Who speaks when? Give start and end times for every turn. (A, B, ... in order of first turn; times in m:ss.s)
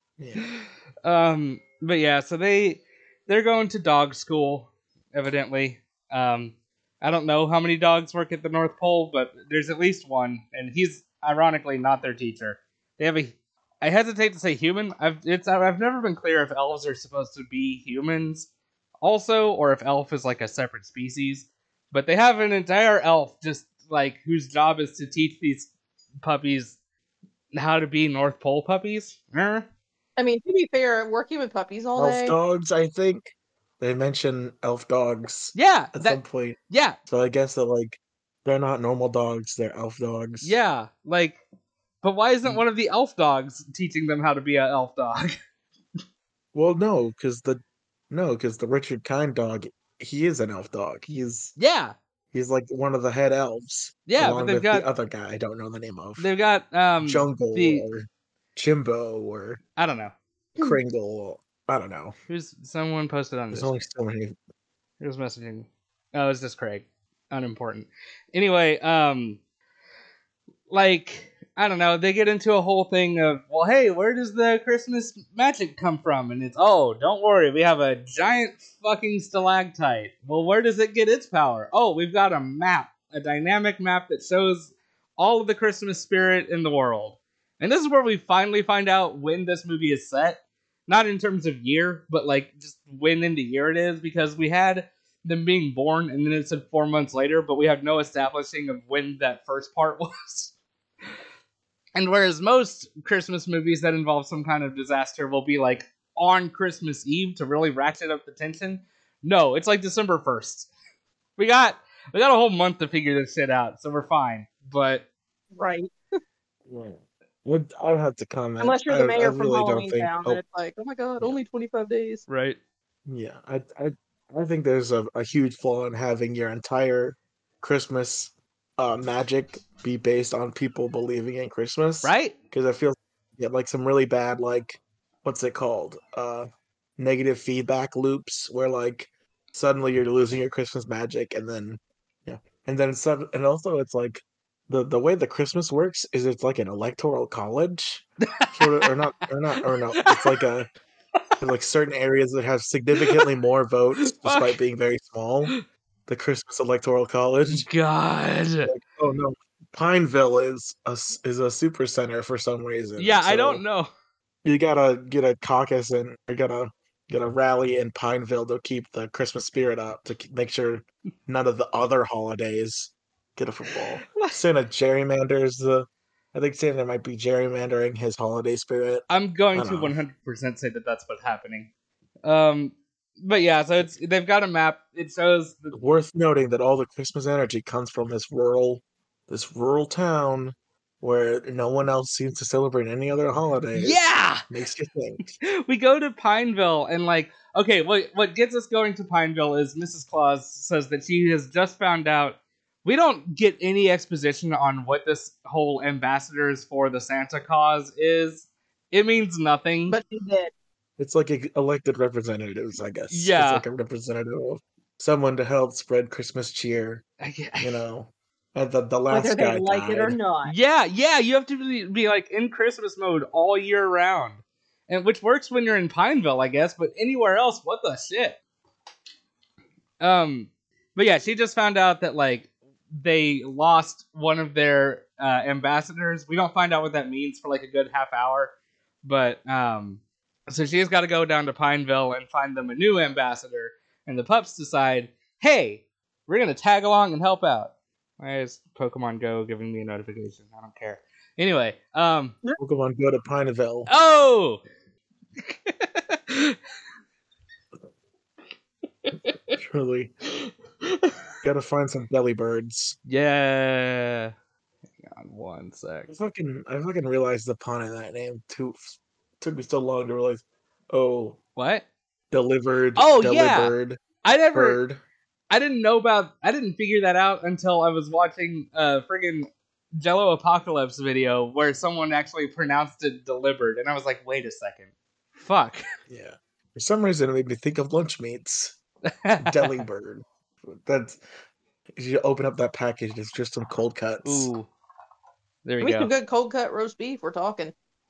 0:00.2-0:00.4 A
0:00.4-0:18.5 B
0:19.0-0:25.7 B
0:26.2-0:26.8 B
0:27.5-0:29.6 B
0:30.2-0:32.3 C
0:32.0-0:40.6 A
0:35.5-0:37.0 B
0:40.4-0:41.4 B
0:42.0-0:45.4 B
0:46.5-0:51.5 A
0:51.6-0:51.9 B
0:52.3-0:56.3 A
0:54.1-0:54.9 B
0:56.2-0:57.8 B
0:57.0-0:59.6 A
0:59.8-1:00.1 B
1:00.6-1:02.1 A
1:02.3-1:03.7 B
1:03.5-1:04.3 A
1:05.0-1:09.4 B
1:10.7-1:40.5 B
1:41.9-1:50.7 B
1:51.4-1:55.0 B
1:55.6-1:55.9 C
1:56.7-2:00.4 A
1:58.6-2:02.2 C
2:02.3-2:02.6 B
2:03.0-2:30.7 A
2:12.0-2:12.4 B
2:28.3-2:28.9 B
2:30.0-2:30.4 B
2:31.4-2:35.5 A
2:33.0-2:33.3 B
2:34.1-2:34.6 B
2:36.1-2:37.6 A
2:37.5-2:38.7 B
2:38.6-2:43.6 A
2:43.0-2:43.9 B
2:44.4-3:00.0 A
2:54.1-2:54.4 B
2:59.1-3:01.7 B
3:02.2-3:05.8 B
3:05.7-3:15.3 A
3:13.7-3:14.4 B
3:15.4-3:30.0 B
3:29.9-3:30.5 C
3:31.0-3:37.0 A
3:33.1-3:33.6 B
3:37.2-3:37.8 B
3:37.6-3:40.2 A
3:39.1-3:40.5 C
3:40.4-3:48.4 B
3:50.0-4:12.4 B
4:12.6-4:13.9 A
4:13.9-4:14.6 B
4:15.4-4:16.6 B
4:19.1-4:19.5 B
4:19.6-4:20.1 A
4:20.3-4:21.1 B
4:21.4-4:23.0 A
4:23.1-4:24.3 B
4:25.0-4:26.1 B
4:26.1-4:31.4 A
4:31.6-4:31.8 B
4:32.3-4:35.0 A
4:33.0-4:34.8 B
4:35.5-4:45.8 B
4:46.1-4:48.8 A
4:49.2-4:49.8 B
4:49.4-4:51.2 A
4:51.9-4:54.5 A
4:54.2-4:54.7 B
4:55.6-4:56.1 B
4:55.8-4:57.7 C